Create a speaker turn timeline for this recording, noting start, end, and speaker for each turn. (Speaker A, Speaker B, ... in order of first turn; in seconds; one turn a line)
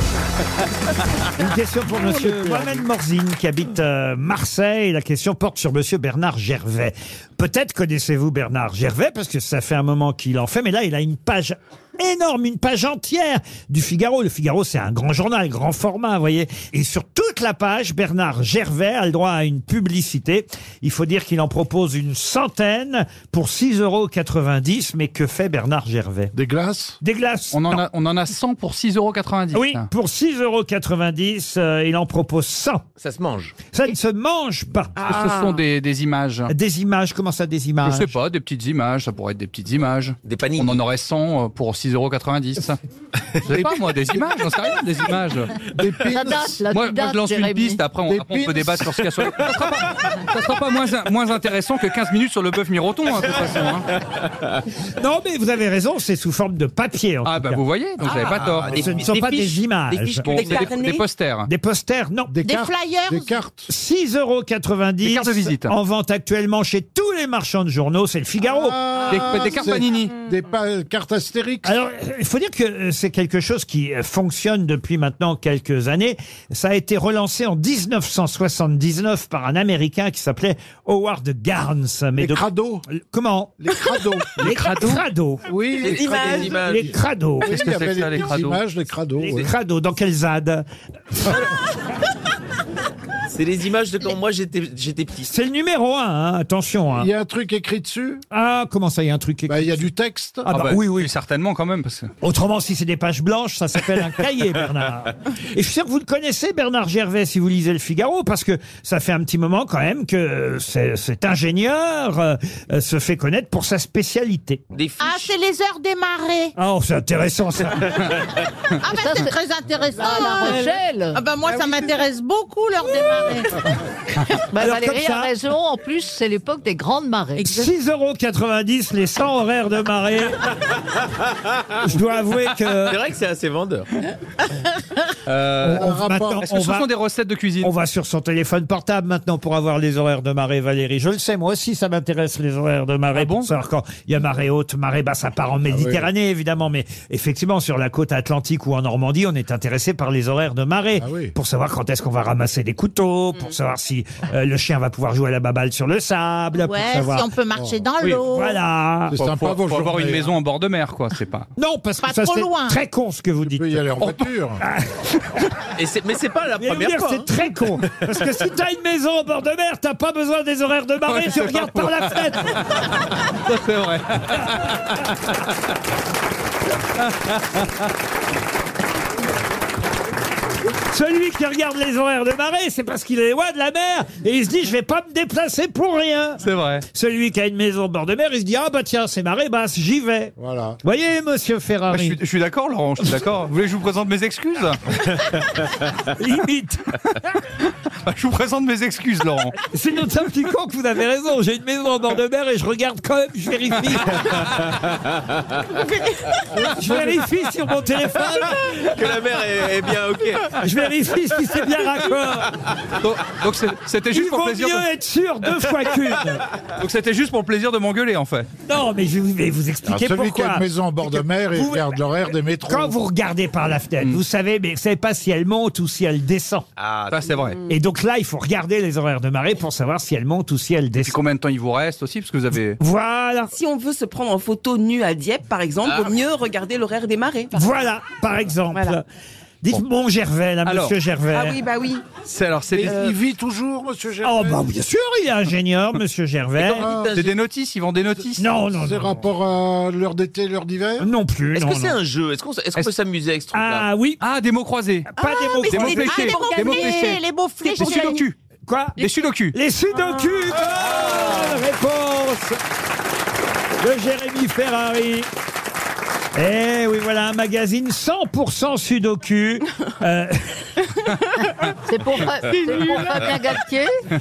Speaker A: 1.4-26.3
Speaker B: 26.3-27.0
Speaker A: 27.0-27.8
Speaker C: 27.5-29.9
Speaker A: 29.5-32.8
Speaker D: 33.0-33.6
Speaker A: 33.7-35.3
Speaker E: 35.1-35.5
Speaker C: 35.1-36.5
Speaker A: 36.5-38.2
Speaker C: 37.8-42.8
Speaker D: 40.2-40.8
Speaker C: 43.4-45.5
Speaker B: 43.5-43.8
Speaker B: 45.6-46.6
Speaker F: 46.1-47.8
Speaker C: 46.7-53.9
Speaker B: 48.1-49.5
Speaker A: 55.0-57.6
Speaker C: 57.2-61.5
Speaker D: 58.0-59.4
Speaker A: 58.7-60.7
Speaker E: 60.3-61.0
Speaker A: 61.5-62.3
Speaker B: 62.3-63.7
Speaker G: 62.4-63.3
Speaker A: 63.7-69.1
Speaker C: 65.0-65.7
Speaker B: 68.5-71.7
Speaker C: 69.1-70.1
Speaker A: 71.6-83.6
Speaker B: 82.2-82.8
Speaker B: 83.6-84.4
Speaker C: 84.4-85.0
Speaker A: 84.4-85.5
Speaker B: 85.5-86.9
Speaker D: 85.8-86.9
Speaker A: 86.2-87.6
Speaker B: 87.4-89.5
Speaker C: 87.5-88.6
Speaker A: 89.2-90.7
Speaker D: 93.3-95.3
Speaker A: 95.2-97.1
Speaker B: 97.0-98.2
Speaker A: 98.3-99.8
Speaker B: 99.5-100.5
Speaker A: 100.5-101.1
Speaker C: 100.5-102.1
Speaker A: 102.2-114.6
Speaker D: 114.7-115.3
Speaker G: 115.0-116.5
Speaker A: 116.5-118.0
Speaker G: 118.8-123.6
Speaker F: 118.9-119.3
Speaker F: 120.0-121.2
Speaker F: 124.5-127.7
Speaker A: 124.5-125.3
Speaker A: 127.3-130.5
Speaker A: 131.8-133.0
Speaker D: 132.8-133.9
Speaker D: 135.3-135.8
Speaker A: 135.6-136.9
Speaker B: 135.7-136.4
Speaker C: 136.4-137.7
Speaker A: 137.6-157.3
Speaker C: 143.1-143.5
Speaker B: 145.7-146.1
Speaker B: 151.0-151.3
Speaker G: 156.5-158.6
Speaker B: 157.5-157.8
Speaker A: 158.1-159.2
Speaker B: 159.1-160.3
Speaker C: 159.2-161.5
Speaker A: 161.6-163.9
Speaker G: 162.0-162.8
Speaker B: 163.4-164.6
Speaker A: 164.6-165.1
Speaker D: 165.8-167.3
Speaker A: 166.6-172.6
Speaker C: 171.1-175.1
Speaker C: 177.0-177.8
Speaker A: 180.9-192.2
Speaker C: 186.4-186.8
Speaker B: 190.4-190.8
Speaker C: 191.9-194.8
Speaker A: 196.2-197.0
Speaker C: 198.0-199.5
Speaker A: 199.7-204.4
Speaker D: 204.8-205.4
Speaker A: 206.6-208.8
Speaker D: 208.8-210.6
Speaker A: 210.6-212.6
Speaker C: 213.0-214.8
Speaker A: 214.1-216.4
Speaker C: 216.8-218.5
Speaker A: 218.7-222.0
Speaker B: 219.9-222.9
Speaker A: 222.7-226.7
Speaker D: 226.8-227.5
Speaker C: 227.1-227.6
Speaker A: 227.7-231.2
Speaker C: 231.0-232.8
Speaker A: 232.8-233.5
Speaker E: 233.5-237.6
Speaker D: 235.8-236.2
Speaker A: 237.5-239.0
Speaker A: 239.6-241.6
Speaker C: 240.7-240.9
Speaker E: 241.3-242.1
Speaker C: 242.2-243.0
Speaker B: 242.7-244.6
Speaker E: 242.8-243.1
Speaker A: 244.2-246.9
Speaker D: 246.6-247.3
Speaker B: 246.7-247.2
Speaker C: 247.1-248.5
Speaker A: 248.4-249.2
Speaker B: 248.7-251.1
Speaker A: 251.0-252.0
Speaker D: 251.5-253.9
Speaker A: 253.5-254.2
Speaker C: 254.2-255.1
Speaker A: 255.1-256.3
Speaker E: 255.2-258.2
Speaker C: 255.7-258.4
Speaker G: 255.8-258.2
Speaker A: 258.6-262.6
Speaker C: 259.0-259.5
Speaker A: 263.8-265.3
Speaker A: 266.3-270.7
Speaker F: 271.8-273.9
Speaker E: 272.5-273.1